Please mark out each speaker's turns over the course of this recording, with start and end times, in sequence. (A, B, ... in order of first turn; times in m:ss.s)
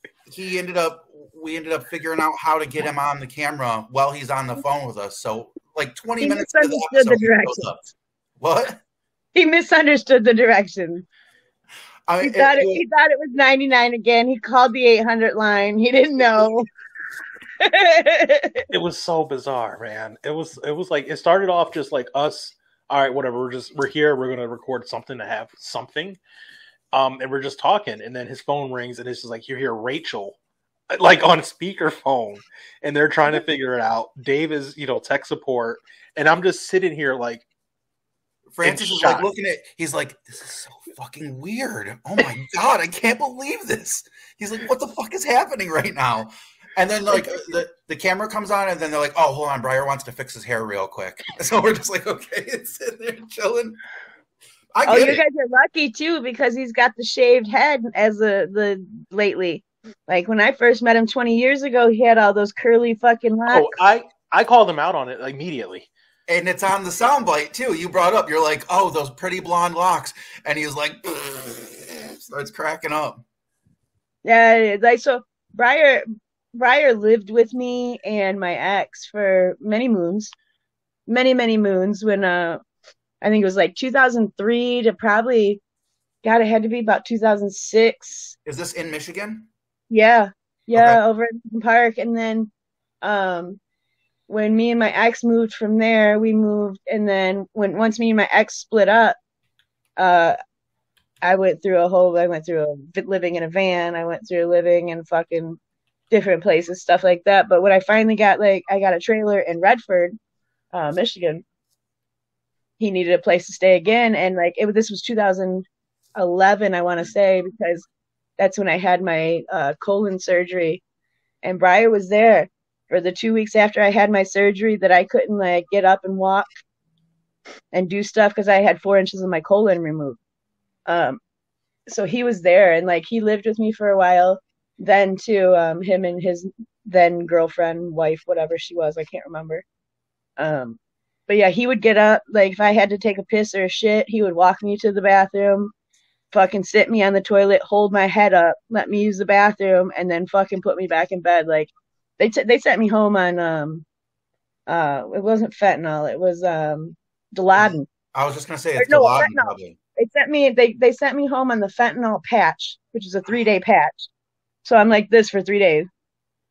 0:00.3-0:07.8 A
0:06.2-0:07.9 B
0:08.4-0:08.8 A
0:09.3-0:11.0 B
0:12.1-0:12.8 A
0:12.2-0:16.7 B
0:17.6-0:18.6 B
0:18.7-0:26.2 C
0:26.9-0:30.4 C
0:30.9-0:37.4 C
0:38.5-0:53.8 A
0:38.6-0:39.3 C
0:54.7-0:55.2 A
0:54.9-1:03.8 B
1:03.5-1:05.9 C
1:06.3-1:13.2 A
1:14.2-1:16.0 B
1:16.5-1:20.3 B
1:21.1-1:22.6 B
1:23.2-1:25.6 B
1:26.2-1:28.4 B
1:28.4-1:29.5 A
1:29.9-1:32.5 B
1:30.7-1:31.0 A
1:33.0-1:33.6 B
1:34.3-1:39.2 B
1:40.0-1:40.4 B
1:41.2-1:45.6 B
1:46.1-1:50.2 B
1:50.7-1:51.4 B
1:52.8-1:55.6 B
1:56.2-1:57.9 B
1:58.4-2:00.8 B
2:01.4-2:06.5 B
2:07.7-2:10.2 B
2:10.9-2:11.2 B
2:11.9-2:19.6 B
2:20.4-2:25.7 B
2:26.3-2:33.8 B
2:34.7-2:37.9 B
2:37.6-2:39.8 A
2:38.8-2:44.1 B
2:44.6-2:45.9 B